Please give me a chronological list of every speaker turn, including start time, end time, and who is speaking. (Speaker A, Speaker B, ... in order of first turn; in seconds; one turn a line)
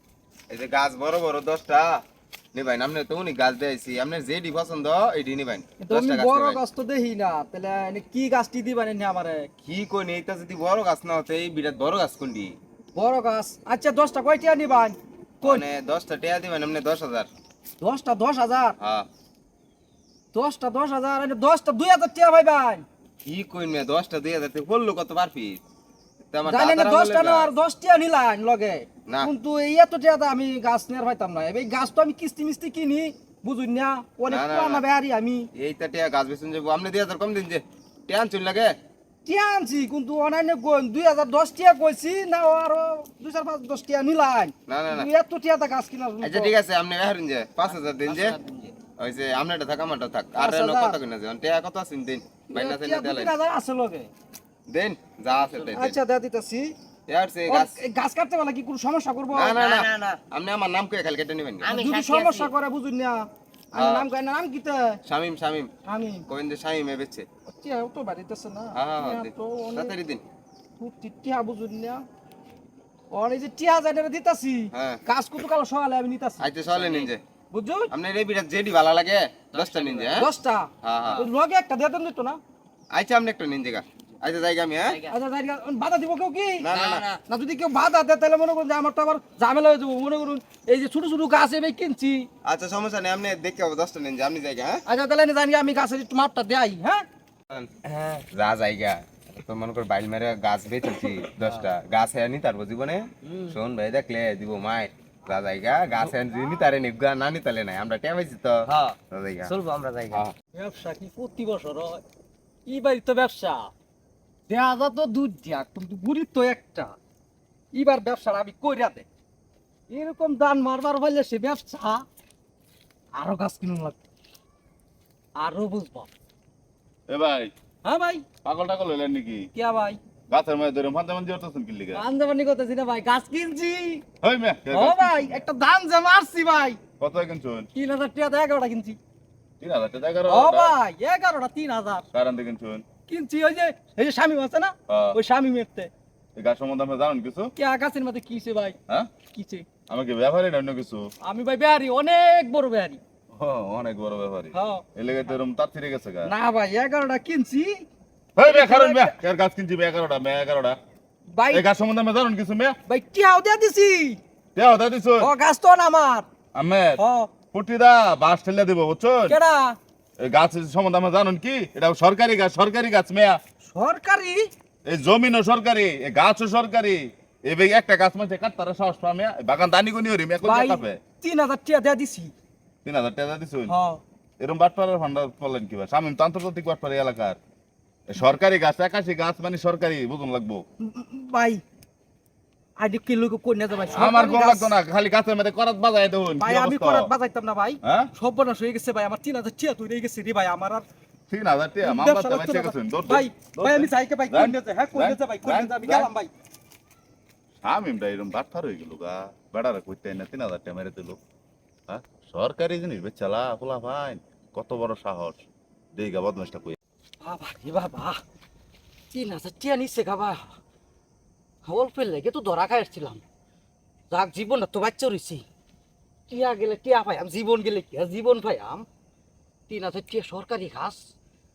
Speaker A: 0.5-2.0
Speaker A: 2.5-6.6
Speaker B: 5.8-9.5
Speaker A: 9.6-12.5
Speaker B: 12.9-15.7
Speaker A: 15.4-17.3
Speaker B: 17.8-18.8
Speaker A: 18.8-19.1
Speaker B: 20.3-22.8
Speaker A: 23.2-25.6
Speaker A: 26.3-27.5
Speaker B: 26.4-35.4
Speaker A: 34.3-34.8
Speaker A: 35.5-38.7
Speaker B: 39.2-46.5
Speaker A: 44.7-45.1
Speaker A: 46.2-48.4
Speaker C: 48.0-48.7
Speaker A: 49.0-53.3
Speaker B: 50.4-51.0
Speaker B: 52.5-54.1
Speaker A: 54.7-56.0
Speaker C: 55.4-55.6
Speaker B: 55.7-56.7
Speaker A: 57.1-57.8
Speaker B: 57.5-59.9
Speaker A: 59.3-61.9
Speaker C: 59.6-60.2
Speaker C: 61.6-62.5
Speaker B: 61.8-63.2
Speaker B: 63.7-65.0
Speaker A: 63.7-64.0
Speaker A: 65.0-65.7
Speaker B: 65.8-66.2
Speaker A: 66.3-67.3
Speaker B: 67.5-69.9
Speaker A: 68.7-70.2
Speaker B: 70.8-72.0
Speaker B: 73.1-76.5
Speaker A: 74.7-75.0
Speaker A: 76.4-77.2
Speaker C: 76.7-77.1
Speaker B: 77.5-77.9
Speaker A: 77.9-80.2
Speaker C: 79.5-80.2
Speaker B: 80.1-82.4
Speaker A: 80.8-81.2
Speaker A: 82.9-85.0
Speaker B: 85.1-86.6
Speaker A: 86.6-87.1
Speaker C: 86.7-87.2
Speaker B: 87.2-92.2
Speaker A: 92.4-94.8
Speaker B: 94.8-97.0
Speaker C: 97.9-98.2
Speaker A: 98.3-109.5
Speaker C: 101.4-101.7
Speaker C: 103.2-103.5
Speaker C: 108.7-110.2
Speaker B: 110.5-112.0
Speaker B: 112.7-113.7
Speaker B: 114.5-116.9
Speaker B: 117.7-119.0
Speaker B: 119.9-122.0
Speaker B: 123.2-124.0
Speaker B: 125.4-126.1
Speaker D: 127.1-127.5
Speaker B: 127.8-128.2
Speaker D: 128.4-129.5
Speaker B: 129.5-130.0
Speaker D: 130.3-132.0
Speaker B: 131.9-134.0
Speaker D: 134.2-135.4
Speaker B: 134.7-136.8
Speaker D: 137.0-137.7
Speaker B: 137.7-139.0
Speaker D: 139.6-140.7
Speaker B: 140.2-142.0
Speaker D: 142.1-142.8
Speaker B: 143.1-145.9
Speaker D: 144.9-145.2
Speaker D: 146.4-147.5
Speaker B: 147.6-148.8
Speaker B: 149.3-149.7
Speaker D: 149.9-151.0
Speaker B: 151.2-153.0
Speaker D: 153.3-156.3
Speaker B: 154.5-154.8
Speaker B: 156.2-157.8
Speaker D: 158.3-160.8
Speaker B: 158.4-159.2
Speaker B: 161.3-161.7
Speaker D: 161.5-162.7
Speaker B: 162.9-164.2
Speaker D: 164.5-165.3
Speaker B: 165.2-166.3
Speaker D: 166.5-167.0
Speaker B: 167.0-167.3
Speaker D: 167.5-169.4
Speaker B: 169.3-169.8
Speaker D: 170.2-173.4
Speaker B: 173.6-174.5
Speaker D: 174.8-181.0
Speaker B: 180.4-182.3
Speaker D: 182.8-183.7
Speaker B: 183.7-184.0
Speaker D: 184.4-187.4
Speaker D: 188.1-190.6
Speaker B: 190.8-191.6
Speaker B: 192.8-194.7
Speaker D: 193.9-197.1
Speaker B: 196.4-200.9
Speaker D: 197.8-198.1
Speaker D: 201.3-206.1
Speaker B: 201.8-206.3
Speaker D: 207.6-211.2
Speaker D: 211.9-216.8
Speaker B: 217.2-218.2
Speaker B: 219.1-220.5
Speaker B: 221.7-223.2
Speaker B: 224.1-225.4
Speaker B: 226.3-228.8
Speaker B: 229.7-231.0